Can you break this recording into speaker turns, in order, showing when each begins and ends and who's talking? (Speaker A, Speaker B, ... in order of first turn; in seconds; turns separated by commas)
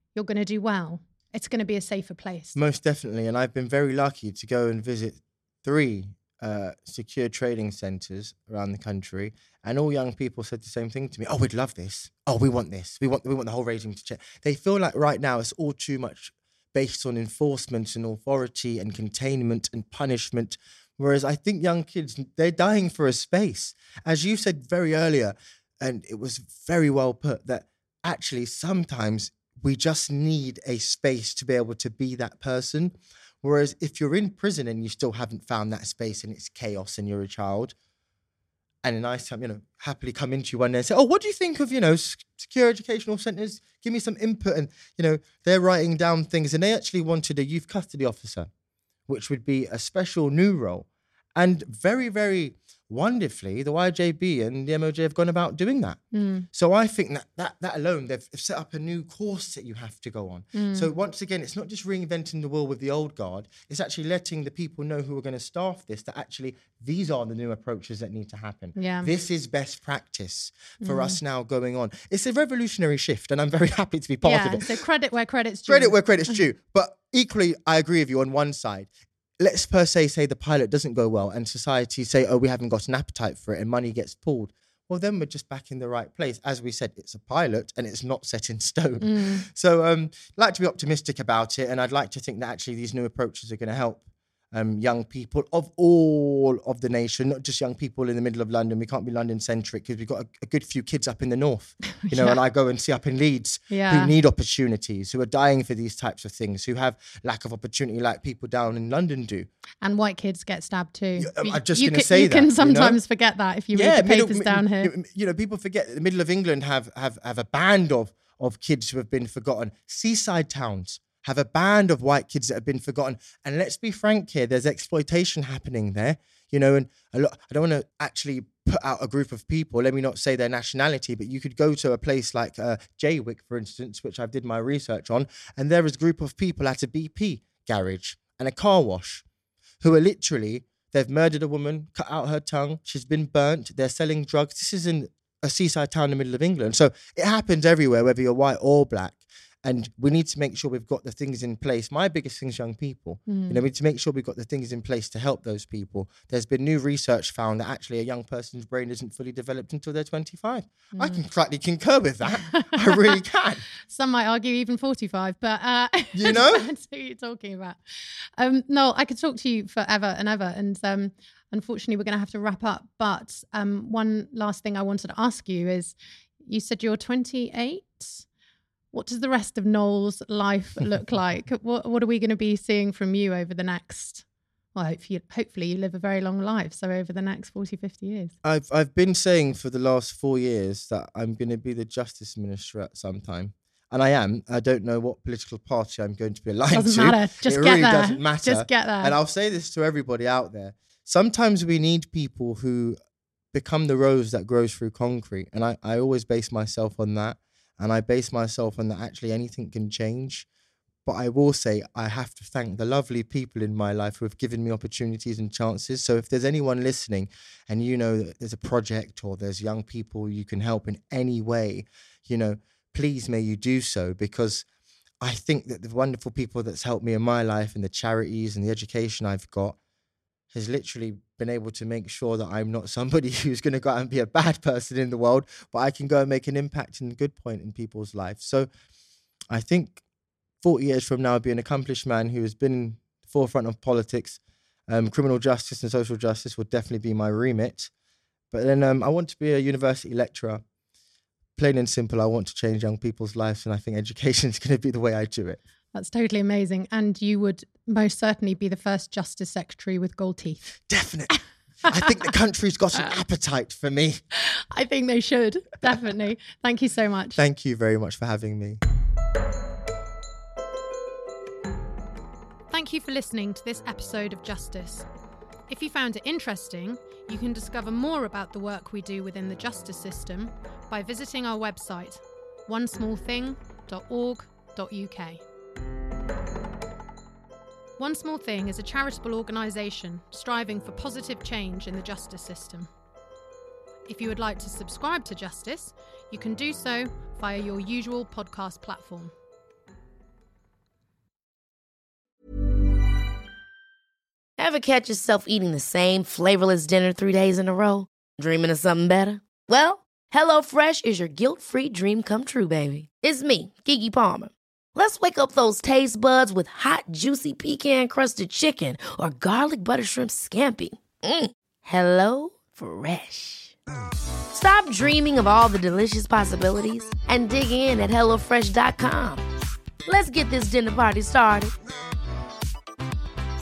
Speaker A: 0.1-2.6, Speaker B: 2.5-37.7, Speaker B: 38.8-48.5, Speaker B: 49.1-56.0, Speaker A: 56.1-56.5, Speaker B: 56.5-74.8, Speaker A: 60.5-60.9, Speaker A: 68.8-69.1, Speaker A: 70.8-71.2, Speaker A: 74.2-76.4, Speaker B: 75.7-109.5, Speaker A: 89.0-89.5, Speaker A: 101.9-102.4, Speaker A: 103.7-104.2, Speaker A: 109.8-114.9, Speaker B: 111.2-113.0, Speaker B: 113.7-139.2, Speaker B: 139.8-163.6, Speaker A: 153.3-153.6, Speaker A: 160.9-161.2, Speaker A: 162.5-163.1, Speaker A: 163.8-178.2, Speaker B: 166.1-166.7, Speaker A: 178.9-188.3, Speaker B: 188.4-203.0, Speaker A: 196.7-199.2, Speaker B: 203.5-210.5, Speaker B: 211.0-224.7, Speaker B: 225.2-229.8, Speaker B: 230.5-238.7, Speaker B: 239.5-240.0, Speaker B: 240.6-247.9, Speaker B: 248.5-250.6, Speaker B: 251.6-255.6, Speaker A: 255.9-260.7, Speaker B: 260.9-264.2, Speaker A: 261.3-262.0, Speaker A: 264.4-267.4, Speaker B: 267.4-268.8, Speaker A: 272.7-275.1, Speaker A: 275.7-285.4, Speaker A: 288.0-292.9, Speaker A: 294.1-299.3, Speaker C: 304.6-323.7, Speaker C: 324.5-329.4, Speaker C: 330.1-331.7